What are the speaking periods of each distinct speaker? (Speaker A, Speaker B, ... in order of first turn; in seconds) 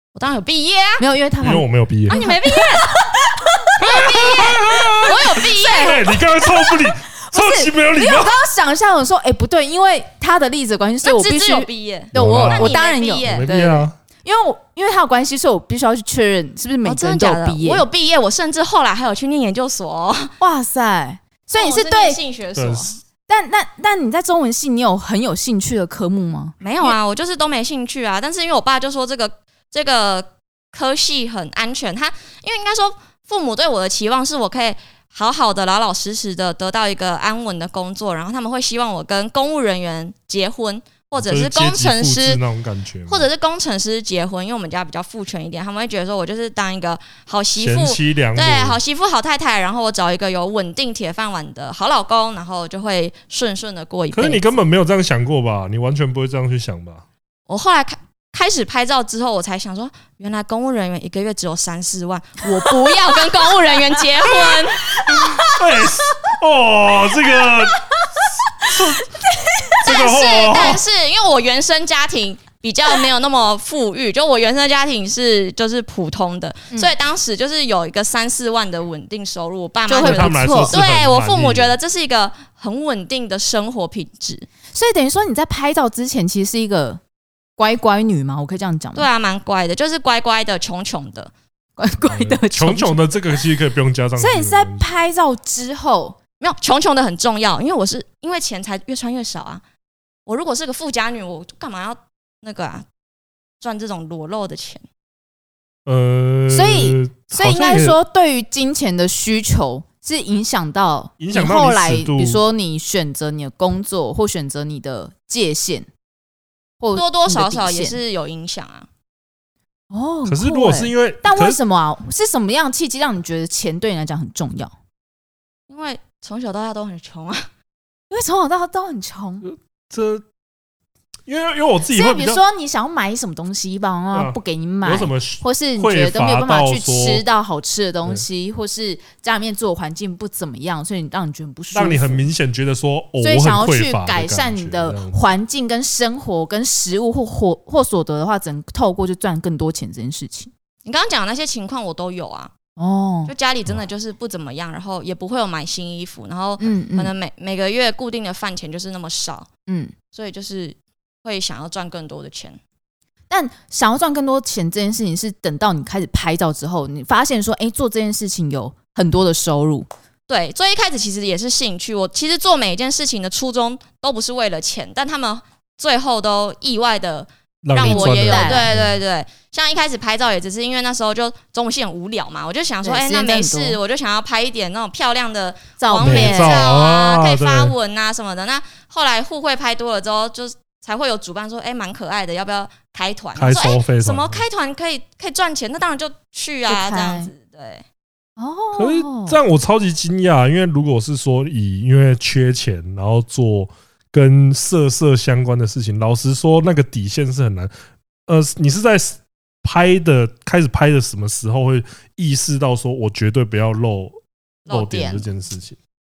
Speaker A: 0.1-1.0, 2.1-2.9, 3.8-6.1, 11.0-13.5, 16.8-20.3, 21.5-22.9, 26.6-42.4, 43.1-54.5, 57.5-64.9, 69.8-84.5, 89.0-91.3, 96.4-99.6, 100.3-102.9, 103.6-104.8, 117.0-118.9, 125.7-127.5, 150.8-152.5, 153.3-159.5, 160.1-162.6, 170.3-197.8, 214.7-215.3
Speaker B: 1.0-4.2, 6.4-17.9, 20.4-22.2, 23.3-27.0, 62.5-65.9, 68.5-69.8, 79.9-80.8, 84.7-87.0, 87.6-89.1, 91.8-93.2, 94.2-96.2, 106.5-115.9, 116.8-118.0, 119.9-124.7, 128.1-129.4, 131.9-142.3, 143.2-150.5, 152.8-153.3, 156.6-157.1, 159.7-160.0, 163.3-169.9, 177.8-178.7, 182.8-183.8, 185.8-186.7, 196.7-197.3, 198.4-199.4
Speaker C: 1.4-2.2, 3.8-8.4, 12.1-13.9, 22.6-23.0, 41.2-43.3, 47.6-48.8, 54.1-57.0, 65.1-67.8, 68.6-69.1, 69.8-70.8, 80.0-81.8, 92.1-94.8, 105.9-108.0, 111.2-112.4, 120.3-121.6, 129.4-130.2, 131.3-132.4, 134.1-137.2, 141.7-145.2, 177.6-179.0, 186.0-187.7, 193.4-194.4, 198.8-207.7, 208.3-214.2, 214.7-215.8